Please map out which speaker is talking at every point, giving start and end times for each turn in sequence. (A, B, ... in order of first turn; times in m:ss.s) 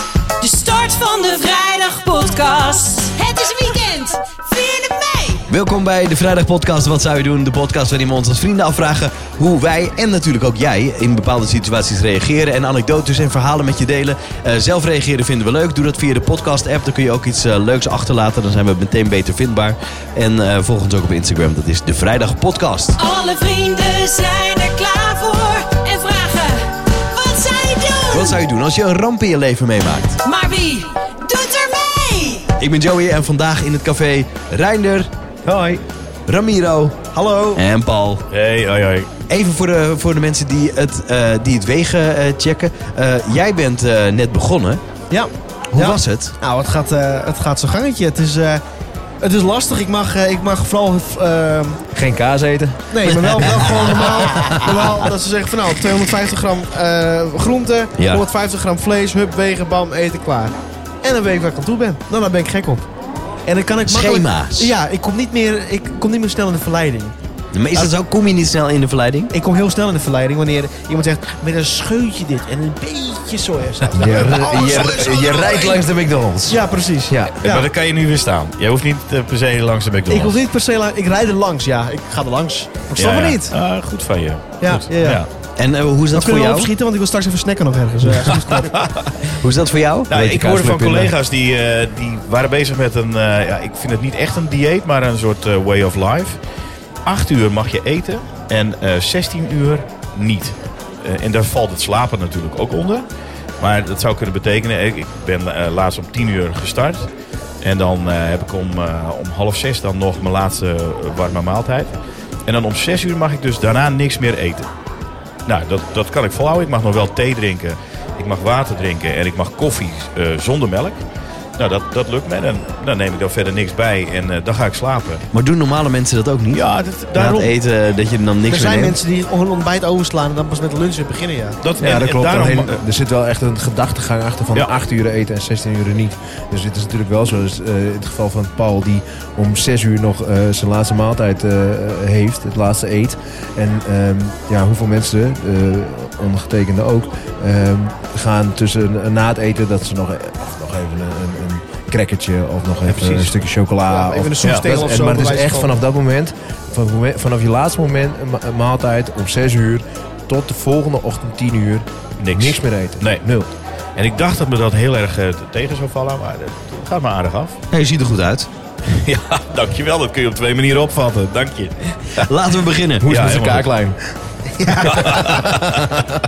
0:00.4-0:05.4 A
0:05.5-0:23.0 B
0:23.0-0:28.4 A
0:28.1-0:30.2 B
0:30.2-0:32.5 A
0:32.6-0:35.1 B
0:35.5-0:35.8 C
0:36.3-0:38.2 B
0:37.1-0:37.6 C
0:38.3-0:39.1 D
0:39.3-0:44.8 B
0:45.1-0:48.6 C
0:45.7-0:46.4 B
0:49.2-0:51.8 C
0:51.9-0:55.1 E
0:52.9-1:02.9 C
0:58.0-0:58.2 B
1:03.5-1:07.1 C
1:03.8-1:04.7 B
1:07.5-1:09.3 B
1:09.3-1:15.9 C
1:13.9-1:17.7 E
1:16.5-1:17.2 C
1:17.4-1:20.4 D
1:20.1-1:23.5 C
1:23.0-1:25.3 D
1:24.6-1:25.2 C
1:25.6-1:26.7 B
1:26.1-1:28.8 C
1:28.7-1:29.4 D
1:29.4-1:30.1 B
1:30.1-1:36.4 D
1:30.1-1:31.1 E
1:37.1-1:43.0 D
1:43.6-1:47.1 D
1:47.6-1:51.9 D
1:52.5-1:54.7 D
1:55.5-2:01.0 D
2:01.6-2:05.2 D
2:05.3-2:09.0 B
2:06.5-2:07.6 D
2:08.5-2:11.6 C
2:11.6-2:12.8 D
2:11.8-2:43.5 E
2:32.9-2:33.3 D
2:33.9-2:35.7 C
2:34.4-2:34.7 D
2:42.2-2:43.2 D
2:44.0-2:47.6 D
2:47.7-2:48.5 B
2:48.9-2:52.2 D
2:52.2-2:53.1 B
2:53.0-2:56.2 E
2:53.0-2:53.7 D
2:54.8-2:55.9 D